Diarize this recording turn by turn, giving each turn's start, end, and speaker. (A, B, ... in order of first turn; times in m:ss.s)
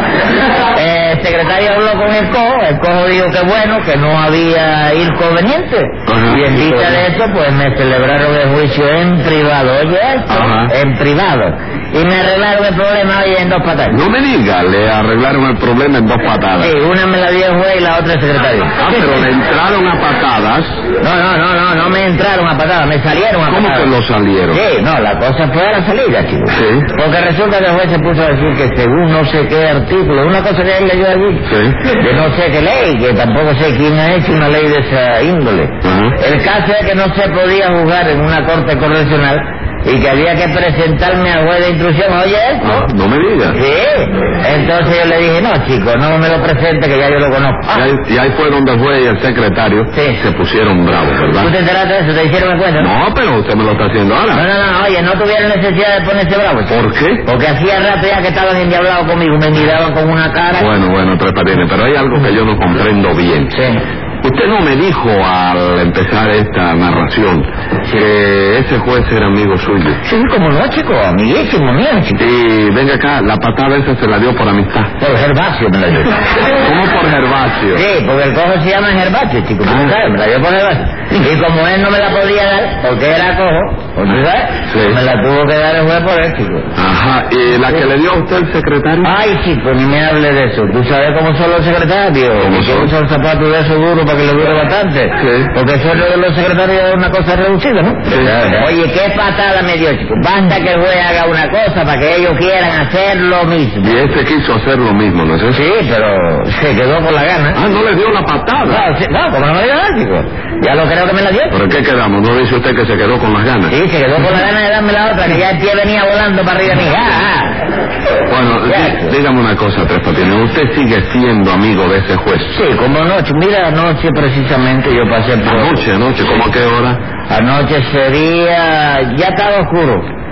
0:00.7-0:14.0 A
0:06.1-0:07.0 B
0:10.3-0:10.7 B
0:13.9-0:16.7 B
0:16.6-0:18.7 A
0:18.8-0:20.8 B
0:21.0-0:23.9 A
0:23.5-0:24.6 B
0:24.5-0:42.9 A
0:26.5-0:26.9 B
0:31.5-0:31.8 B
0:35.8-0:36.2 B
0:42.6-0:43.6 B
0:43.5-0:47.8 A
0:47.7-0:51.5 B
0:49.9-0:50.2 A
0:51.4-0:52.9 A
0:52.8-0:54.4 B
0:54.3-0:56.8 A
0:56.7-0:57.2 B
0:57.3-1:00.7 A
1:00.6-1:03.5 B
1:03.5-1:03.8 A
1:04.2-1:10.0 B
1:10.0-1:12.2 A
1:12.2-1:14.9 B
1:15.0-1:16.2 A
1:16.6-1:17.8 B
1:17.7-1:26.7 A
1:24.7-1:25.0 B
1:26.8-1:29.1 B
1:29.0-1:44.0 A
1:32.4-1:32.9 B
1:35.2-1:35.5 B
1:38.1-1:38.6 B
1:43.8-1:45.6 B
1:45.5-1:47.6 A
1:47.5-1:48.8 B
1:48.7-1:51.6 A
1:51.5-1:53.7 B
1:53.7-1:57.6 A
1:58.3-2:02.5 B
1:58.7-1:59.1 A
2:02.5-2:05.8 A
2:05.4-2:07.0 B
2:07.3-2:10.1 A